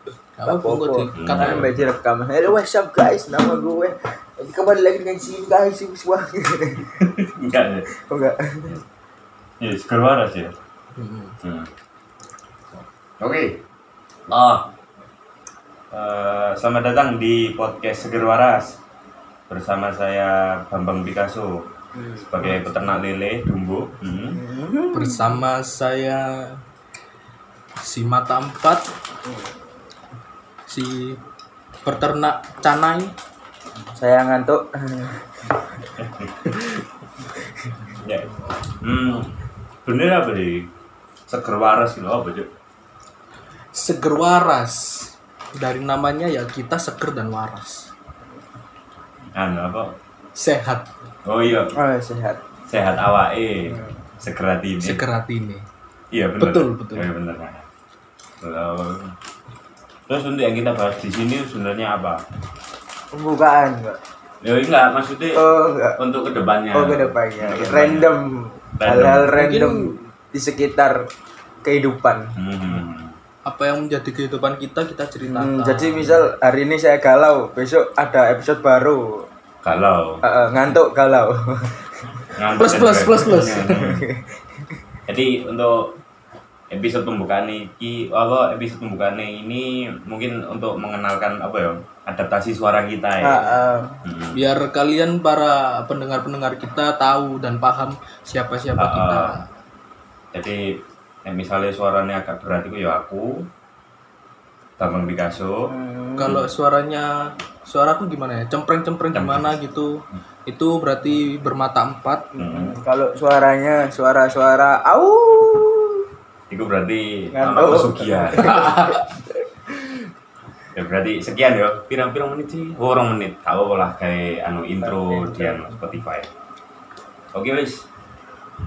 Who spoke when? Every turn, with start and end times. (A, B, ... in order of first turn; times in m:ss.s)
0:00.4-0:01.7 A
0:00.4-0:06.9 B
0:01.1-0:01.7 C
0:07.0-0:07.9 C
0:07.9-0:08.8 B
0:09.6-0:10.5 C
0:11.0-0:11.4 A
0:11.4-0:11.7 C
0:13.2-0:13.6 C
0:14.3-0:14.7 C
0:15.9-0:18.8 C
0:19.5-0:21.6 C
0:22.2-0:24.4 C
0:24.3-0:25.4 B
0:24.9-0:26.6 A
0:27.8-0:28.9 A
0:30.7-0:31.2 A
0:31.8-0:33.1 A
0:33.9-0:35.6 B
0:38.0-0:40.7 C
0:41.3-0:42.5 C
0:43.7-0:47.9 A
0:49.4-0:49.9 C
0:50.3-0:50.9 A
0:51.2-0:51.8 C
0:51.7-0:52.4 B
0:52.7-0:55.0 C
0:54.8-0:55.6 A
0:56.1-0:57.7 C
0:56.4-0:57.1 A
0:58.4-0:59.1 C
1:00.1-1:02.2 C
1:03.1-1:04.0 B
1:04.4-1:08.2 C
1:05.3-1:06.0 B
1:06.7-1:11.1 B
1:08.8-1:09.3 C
1:09.3-1:10.0 A
1:11.6-1:12.3 B
1:12.3-1:13.2 C
1:13.4-1:16.2 A
1:15.3-1:19.3 B
1:19.6-1:20.2 C
1:20.2-1:22.3 B
1:22.4-1:24.1 C
1:22.6-1:23.8 A
1:23.6-1:24.4 B
1:25.1-1:25.9 C
1:26.7-1:34.4 C
1:33.2-1:34.0 B
1:34.3-1:39.4 A
1:38.8-1:39.4 C
1:40.3-1:43.5 C
1:44.8-1:45.7 C
1:45.7-1:46.3 B
1:46.2-1:52.3 A
1:49.1-1:49.6 C
1:52.4-1:52.8 C
1:52.4-1:56.0 B
1:56.5-1:59.0 C
1:57.3-1:59.1 B
2:00.7-2:06.3 C
2:04.9-2:05.7 B
2:07.3-2:07.8 C